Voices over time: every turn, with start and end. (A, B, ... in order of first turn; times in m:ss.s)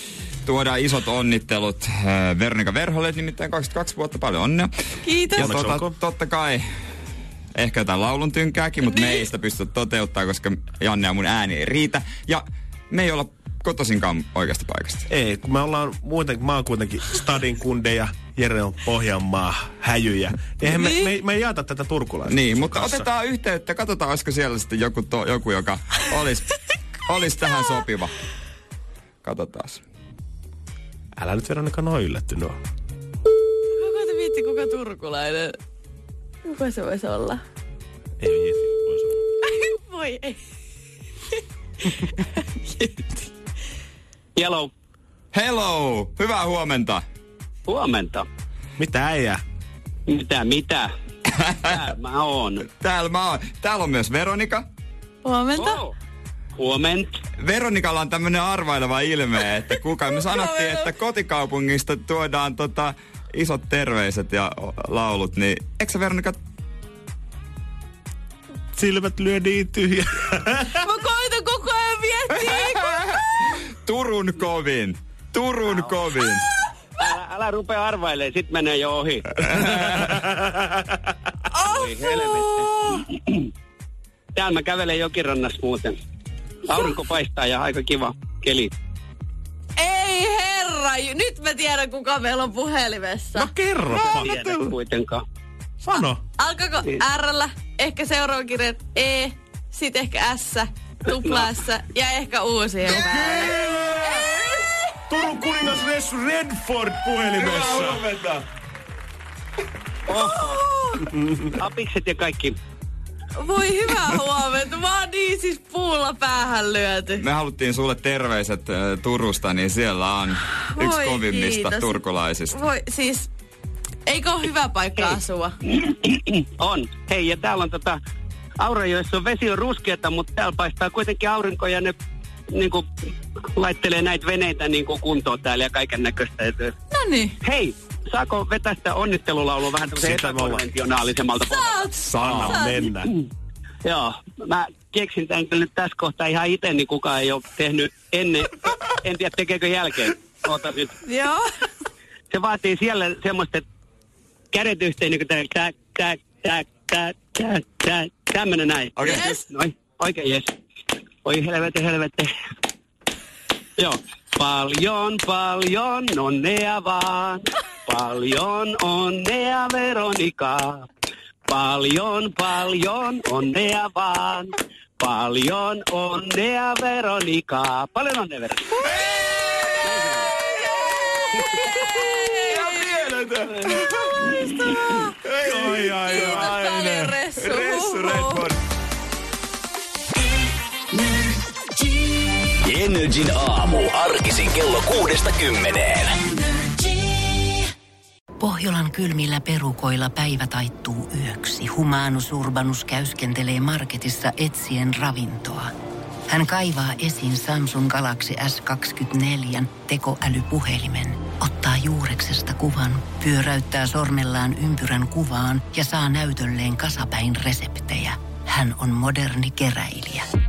0:00.4-0:04.7 A
0:05.0-0:05.5 B
0:05.3-0:06.0 C
0:05.4-0:06.6 A
0:07.5-0:15.0 A
0:08.8-0:09.2 B
0:15.1-0:23.1 C
0:20.7-0:21.1 B
0:22.3-0:28.1 A
0:29.2-0:29.8 A
0:31.2-0:32.6 C
0:33.7-0:35.6 B
0:36.4-0:37.4 B
0:38.2-0:39.2 C
0:39.4-0:40.4 B
0:41.9-0:43.3 B
0:44.4-0:44.7 D
0:45.3-0:47.0 A
0:47.7-0:48.2 D
0:48.8-0:49.4 C
0:50.1-0:50.9 D
0:51.3-0:51.8 A
0:51.7-0:52.6 D
0:52.7-0:54.7 A
0:55.2-0:55.8 B
0:55.6-0:55.9 D
0:56.6-0:57.1 D
0:57.4-1:06.4 A
1:00.2-1:00.9 B
1:08.8-1:10.8 C
1:10.8-1:13.2 B
1:12.5-1:13.2 A
1:13.8-1:16.4 A
1:17.0-1:19.4 D
1:19.5-1:20.2 A
1:20.2-1:20.6 C
1:21.5-1:23.0 B
1:21.7-1:23.5 D
1:24.3-1:26.0 D
1:26.6-1:28.7 D
1:29.8-1:33.5 B
1:33.3-1:34.7 C
1:34.0-1:35.2 D
1:35.8-1:36.2 C
1:36.0-1:43.6 B
1:42.8-1:44.3 C
1:45.1-1:48.1 C
1:47.4-1:48.4 A
1:50.1-1:50.6 D
1:50.3-1:51.1 B
1:51.0-1:51.4 C
1:51.6-1:52.6 D
1:53.4-1:57.2 B
1:57.1-2:02.6 A
2:00.6-2:03.3 B
2:04.0-2:05.5 B
2:05.9-2:08.0 D
2:08.6-2:11.9 D
2:12.5-2:12.8 D
2:13.6-2:16.7 D
2:16.9-2:17.4 B
2:17.4-2:21.9 D
2:20.0-2:20.7 C
2:21.4-2:22.9 B
2:22.1-2:23.1 C
2:23.8-2:30.9 D
2:31.0-2:31.4 B
2:32.3-2:33.6 D
2:34.5-2:40.4 D
2:39.1-2:39.4 B
2:41.2-2:42.3 D
2:43.8-2:50.9 D
2:51.5-2:58.6 D
2:58.8-3:08.6 A
2:58.8-2:59.2 B
2:59.9-3:00.2 D
3:01.4-3:03.0 B
3:04.2-3:05.1 B
3:05.4-3:07.2 C
3:05.8-3:08.4 B
3:12.6-3:16.2 E
3:18.4-3:25.7 F
3:26.3-3:40.2 F